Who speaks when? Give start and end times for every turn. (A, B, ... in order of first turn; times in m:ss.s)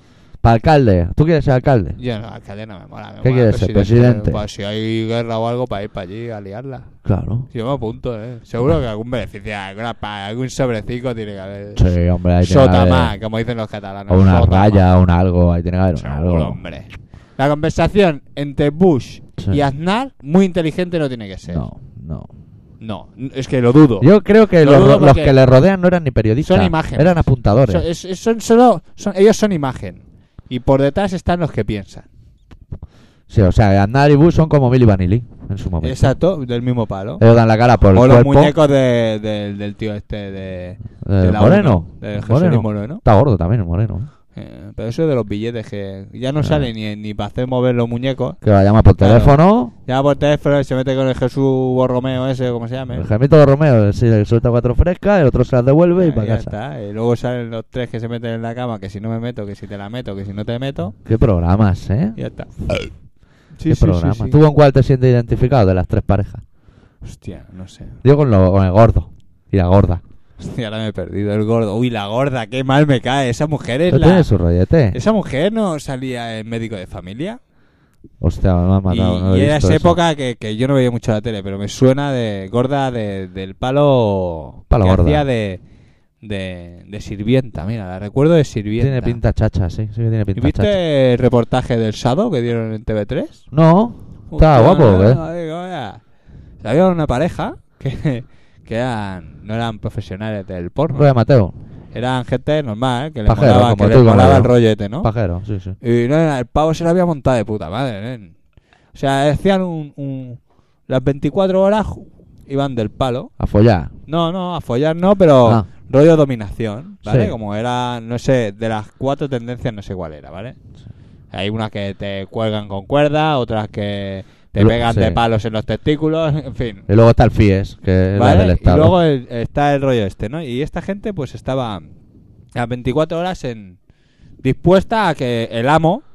0:00.4-0:02.0 A
0:02.0-0:06.9 B
0:03.2-0:04.4 A
0:07.0-0:07.5 A
0:07.5-0:14.8 B
0:11.7-0:13.1 A
0:14.1-0:16.6 A
0:16.0-0:21.6 B
0:21.5-0:22.3 A
0:22.8-0:25.4 B
0:24.0-0:27.8 A
0:26.4-0:32.0 B
0:33.3-0:36.1 A
0:35.8-0:37.2 B
0:37.2-0:38.5 A
0:37.9-0:43.0 B
0:41.0-0:44.1 A
0:44.3-0:48.4 B
0:46.4-0:46.7 A
0:48.4-0:49.7 A
0:49.0-0:53.1 B
0:52.9-0:56.5 A
0:56.0-1:00.9 B
1:01.0-1:02.8 A
1:02.2-1:02.5 B
1:03.5-1:04.4 B
1:03.7-1:06.4 A
1:07.0-1:08.0 B
1:08.0-1:10.0 A
1:10.4-1:14.3 B
1:13.9-1:15.0 A
1:14.9-1:17.4 B
1:18.2-1:20.0 A
1:18.9-1:25.6 B
1:24.7-1:25.2 A
1:26.2-1:29.2 B
1:28.8-1:30.8 A
1:30.3-1:33.4 B
1:33.5-1:35.2 A
1:34.3-1:36.0 B
1:36.6-1:41.1 B
1:40.9-1:41.5 A
1:41.9-1:45.1 B
1:43.2-1:45.8 A
1:45.8-1:48.4 B
1:48.9-1:53.3 B
1:53.4-1:53.9 A
1:54.1-2:00.6 B
1:57.0-1:57.3 A
2:01.3-2:06.8 B
2:04.6-2:05.2 A
2:06.9-2:09.0 A
2:08.1-2:11.9 B
2:12.5-2:13.8 B
2:14.4-2:16.0 B